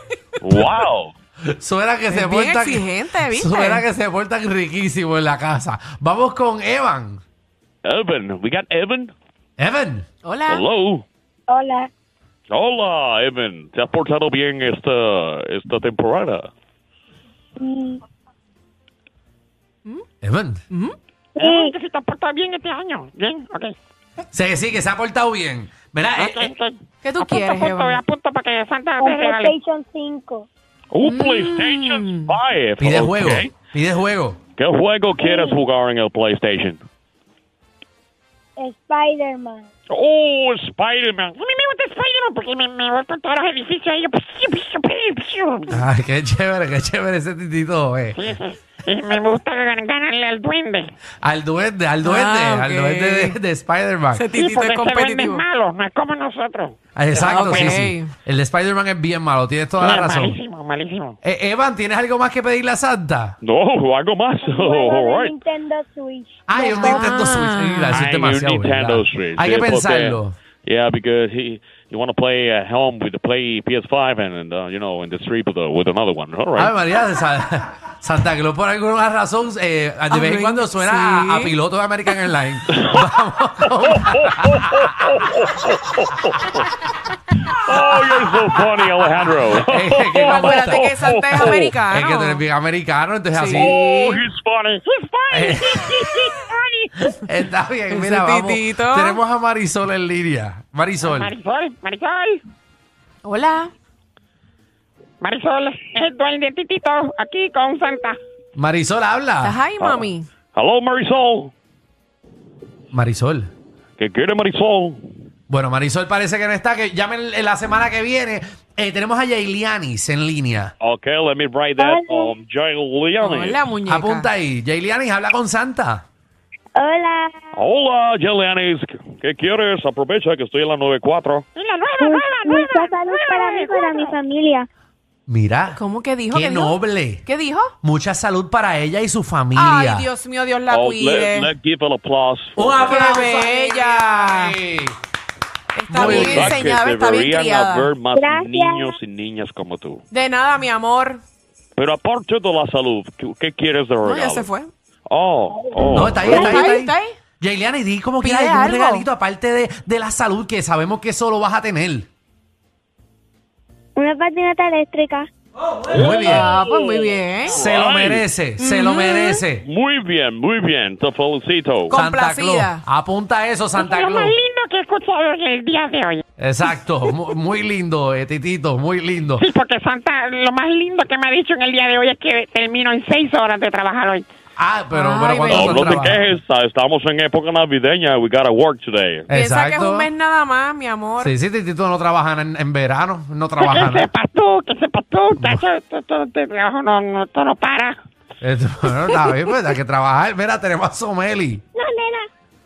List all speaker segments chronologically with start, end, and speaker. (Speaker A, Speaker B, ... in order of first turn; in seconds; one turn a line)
Speaker A: 0.4-1.1
Speaker B: 1.4-7.2
Speaker C: 2.1-3.9
Speaker A: 7.8-9.1
Speaker B: 9.6-10.1
Speaker C: 10.2-10.7
Speaker A: 10.5-11.1
Speaker D: 11.5-11.9
Speaker A: 12.5-16.5
Speaker D: 17.6-18.0
Speaker B: 20.2-20.6
Speaker C: 20.7-21.0
Speaker D: 21.4-21.7
Speaker E: 21.4-23.8
Speaker B: 24.3-26.5
Speaker E: 26.2-29.5
Speaker C: 27.0-28.0
Speaker D: 29.0-30.5
Speaker A: 30.9-33.5
Speaker C: 31.0-32.3
Speaker B: 32.8-34.4
Speaker A: 34.6-36.8
Speaker D: 35.2-35.6
Speaker D: 38.6-39.7
Speaker A: 39.9-41.4
Speaker E: 41.4-45.7
Speaker B: 45.7-48.3
Speaker E: 48.2-50.9
Speaker B: 51.2-54.3
Speaker C: 52.0-53.4
Speaker C: 54.1-55.5
Speaker E: 54.4-57.8
Speaker B: 57.0-60.4
Speaker C: 57.2-58.1
Speaker E: 59.8-61.2
Speaker B: 61.2-63.4
Speaker A: 63.4-65.4
Speaker D: 64.6-67.1
Speaker B: 66.5-70.3
Speaker C: 66.9-68.0
Speaker A: 68.0-76.8
Speaker B: 76.6-84.7
Speaker C: 80.1-81.6
Speaker A: 82.8-83.1
Speaker A: 84.0-86.6
Speaker A: 87.7-91.7
Speaker B: 89.5-93.8
Speaker C: 90.2-92.4
Speaker C: 93.3-94.2
Speaker A: 93.5-94.7
Speaker E: 94.7-97.1
Speaker B: 95.3-96.4
Speaker B: 97.1-101.3
Speaker C: 97.9-99.2
Speaker E: 101.1-102.4
Speaker C: 103.2-103.7
Speaker E: 105.2-108.2
Speaker B: 108.6-109.6
Speaker C: 109.4-110.3
Speaker A: 109.8-111.5
Speaker B: 112.9-113.5
Speaker A: 114.0-115.0
Speaker B: 115.5-120.7
Speaker A: 120.8-123.6
Speaker D: 121.8-122.3
Speaker C: 123.2-124.3
Speaker B: 123.9-126.0
Speaker D: 126.8-127.5
Speaker A: 127.5-131.4
Speaker E: 131.6-134.2
Speaker D: 132.0-134.7
Speaker B: 135.3-135.8
Speaker C: 135.8-137.7
Speaker B: 136.3-137.2
Speaker B: 137.8-140.1
Speaker C: 139.6-141.5
Speaker A: 140.7-143.0
Speaker B: 142.6-144.9
Speaker C: 142.8-144.6
Speaker C: 145.8-148.0
Speaker B: 145.9-146.6
Speaker A: 145.9-150.0
Speaker D: 148.1-149.0
Speaker C: 150.1-151.2
Speaker A: 151.8-154.5
Speaker C: 154.0-154.7
Speaker A: 155.1-156.6
Speaker B: 155.9-162.1
Speaker C: 156.3-157.2
Speaker C: 158.2-159.1
Speaker D: 164.0-165.3
Speaker B: 165.9-166.5
Speaker A: 165.9-166.5
Speaker C: 166.2-167.6
Speaker B: 167.5-169.6
Speaker A: 167.6-168.3
Speaker C: 168.6-169.4
Speaker A: 169.6-172.0
Speaker C: 171.9-172.8
Speaker B: 171.9-174.4
Speaker E: 173.8-176.2
Speaker B: 176.4-179.4
Speaker E: 179.4-184.2
Speaker B: 184.6-186.4
Speaker C: 184.9-185.7
Speaker A: 185.5-189.3
Speaker B: 189.3-190.1
Speaker C: 189.3-191.3
Speaker B: 191.2-194.1
Speaker E: 193.6-197.9
Speaker B: 195.4-195.6
Speaker B: 198.4-201.6
Speaker D: 201.8-202.3